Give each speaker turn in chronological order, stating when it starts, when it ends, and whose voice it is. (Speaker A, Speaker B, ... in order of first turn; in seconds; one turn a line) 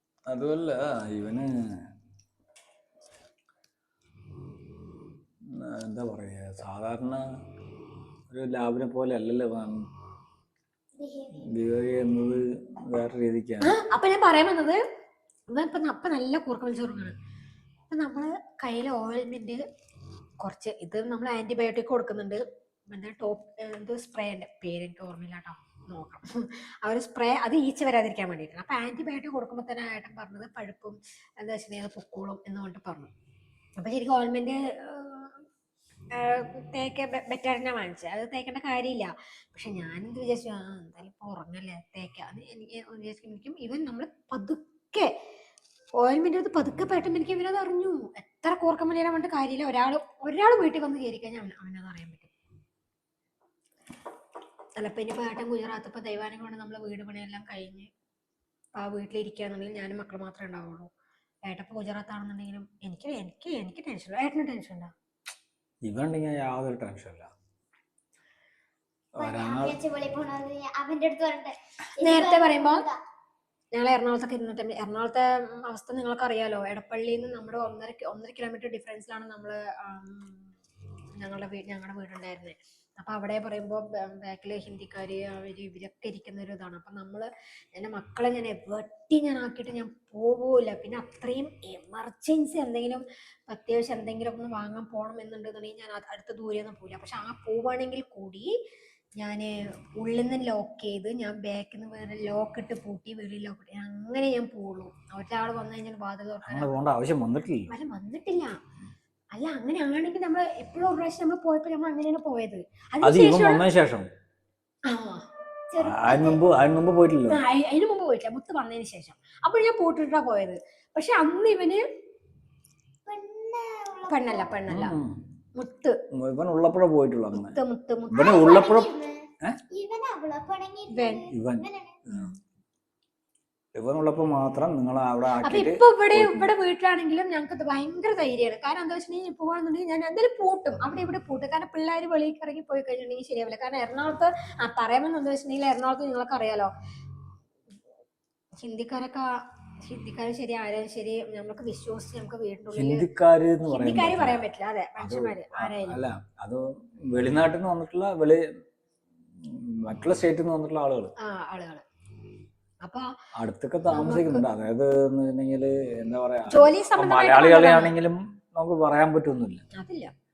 Speaker A: 0.3-1.5
Speaker A: 5.5-7.2
Speaker A: 8.3-9.9
Speaker B: 11.0-11.5
Speaker A: 11.3-13.7
Speaker C: 13.6-14.8
Speaker C: 15.5-17.1
Speaker C: 17.9-19.6
Speaker C: 20.4-33.1
Speaker C: 33.8-35.5
Speaker C: 36.1-45.1
Speaker C: 46.0-52.3
Speaker C: 54.8-57.9
Speaker C: 58.8-60.9
Speaker C: 61.5-64.9
Speaker A: 65.8-67.3
Speaker A: 69.2-69.8
Speaker B: 69.2-73.0
Speaker C: 72.0-72.8
Speaker C: 73.7-80.5
Speaker C: 81.2-98.5
Speaker C: 99.2-106.7
Speaker A: 106.4-107.7
Speaker C: 107.7-108.6
Speaker C: 109.3-113.6
Speaker A: 113.0-114.1
Speaker C: 114.9-115.2
Speaker B: 115.7-116.4
Speaker A: 115.8-117.4
Speaker C: 117.3-121.8
Speaker B: 123.1-124.5
Speaker C: 124.1-125.0
Speaker A: 124.7-125.2
Speaker C: 125.6-126.0
Speaker A: 126.2-127.6
Speaker C: 127.3-128.4
Speaker A: 128.1-128.9
Speaker B: 128.1-132.0
Speaker C: 130.9-131.3
Speaker A: 131.3-132.3
Speaker C: 132.1-132.4
Speaker A: 133.8-136.5
Speaker C: 135.4-146.7
Speaker C: 148.6-153.1
Speaker A: 152.8-154.4
Speaker C: 153.7-156.0
Speaker A: 155.0-158.4
Speaker A: 159.4-161.1
Speaker C: 161.2-161.8
Speaker A: 163.4-169.6
Speaker C: 163.9-164.5
Speaker C: 166.5-167.9
Speaker C: 169.8-170.1